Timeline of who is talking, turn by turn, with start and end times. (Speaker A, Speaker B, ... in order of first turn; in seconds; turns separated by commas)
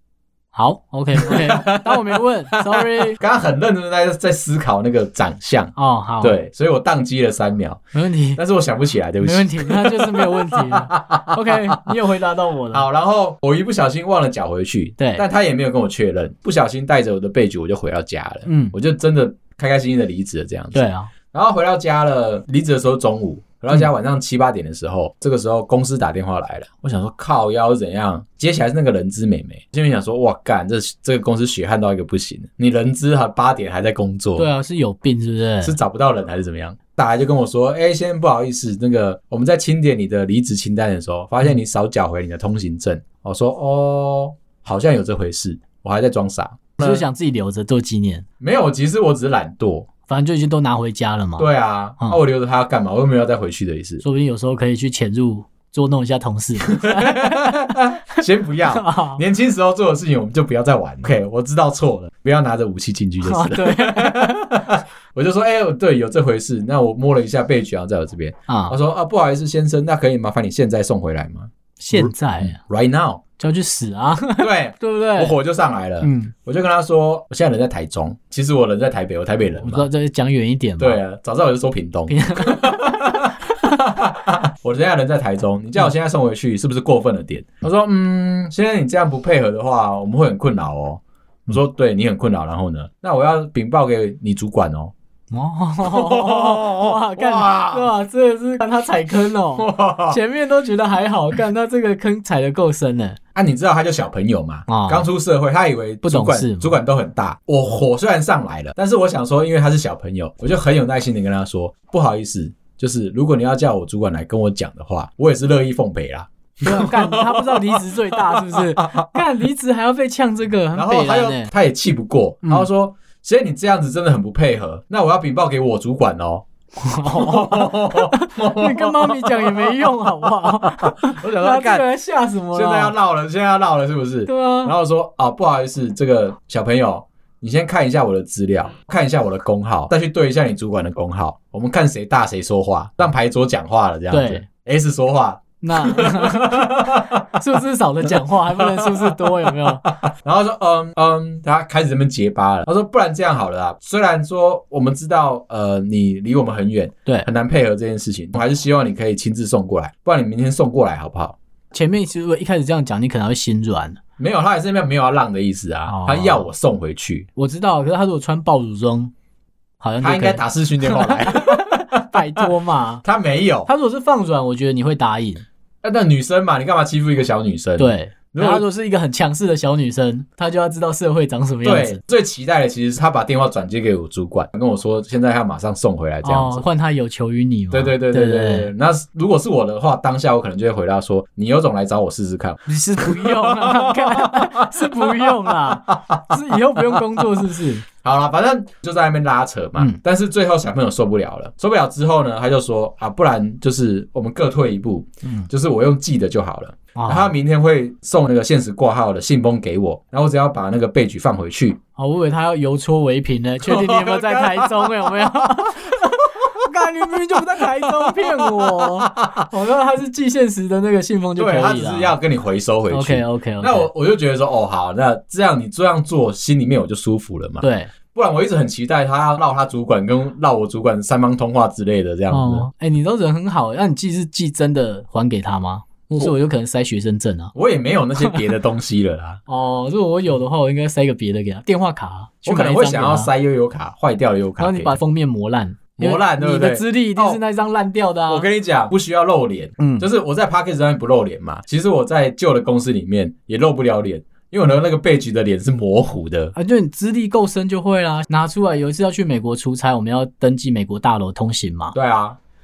Speaker A: 0.5-3.2, Speaker B: 1.1-7.8, Speaker A: 5.8-6.4, Speaker A: 7.9-8.4, Speaker B: 8.3-11.9, Speaker A: 9.2-12.9, Speaker B: 12.7-34.5, Speaker A: 15.0-15.2, Speaker A: 18.4-18.7, Speaker A: 20.7-21.1, Speaker A: 34.4-35.8, Speaker B: 35.6-47.0, Speaker A: 46.8-48.2, Speaker B: 48.4-49.9, Speaker A: 50.1-52.2, Speaker B: 51.4-54.0, Speaker A: 54.0-59.2, Speaker B: 56.6-73.2, Speaker A: 63.2-64.6, Speaker A: 68.5-68.8, Speaker A: 71.8-72.6, Speaker A: 73.4-75.3, Speaker B: 74.4-79.8, Speaker A: 76.0-76.3, Speaker A: 79.5-81.0, Speaker B: 80.8-94.9, Speaker A: 82.1-83.8, Speaker A: 95.3-103.2, Speaker B: 95.8-97.9, Speaker B: 99.6-100.2, Speaker B: 103.3-119.2, Speaker A: 104.7-105.1, Speaker A: 106.0-106.7, Speaker A: 116.6-121.5, Speaker B: 120.7-126.4, Speaker A: 126.8-132.9, Speaker B: 127.0-131.9, Speaker B: 132.5-147.4, Speaker A: 134.3-134.7, Speaker A: 144.1-144.4, Speaker A: 145.6-149.9, Speaker B: 148.6-161.3, Speaker A: 161.7-164.0, Speaker B: 164.2-167.3, Speaker A: 165.9-166.5, Speaker A: 167.3-169.1, Speaker A: 169.8-173.0, Speaker B: 170.0-172.4, Speaker B: 173.0-173.7, Speaker A: 173.7-175.4, Speaker B: 175.8-178.7, Speaker A: 177.8-182.0, Speaker B: 181.6-186.6, Speaker A: 186.2-188.7, Speaker B: 187.7-196.2, Speaker A: 192.7-197.8, Speaker B: 196.9-197.3, Speaker B: 198.0-211.8, Speaker A: 206.9-207.3, Speaker A: 212.0-222.1, Speaker B: 213.6-216.7, Speaker B: 217.6-219.3, Speaker B: 221.3-232.7, Speaker A: 222.9-223.9, Speaker A: 227.6-227.9, Speaker A: 232.3-237.5, Speaker B: 237.5-239.4, Speaker A: 239.5-243.3, Speaker B: 242.4-245.0, Speaker A: 244.6-248.4, Speaker B: 246.0-247.4, Speaker B: 248.3-256.5, Speaker A: 249.8-250.1, Speaker A: 256.5-261.9, Speaker B: 261.9-262.4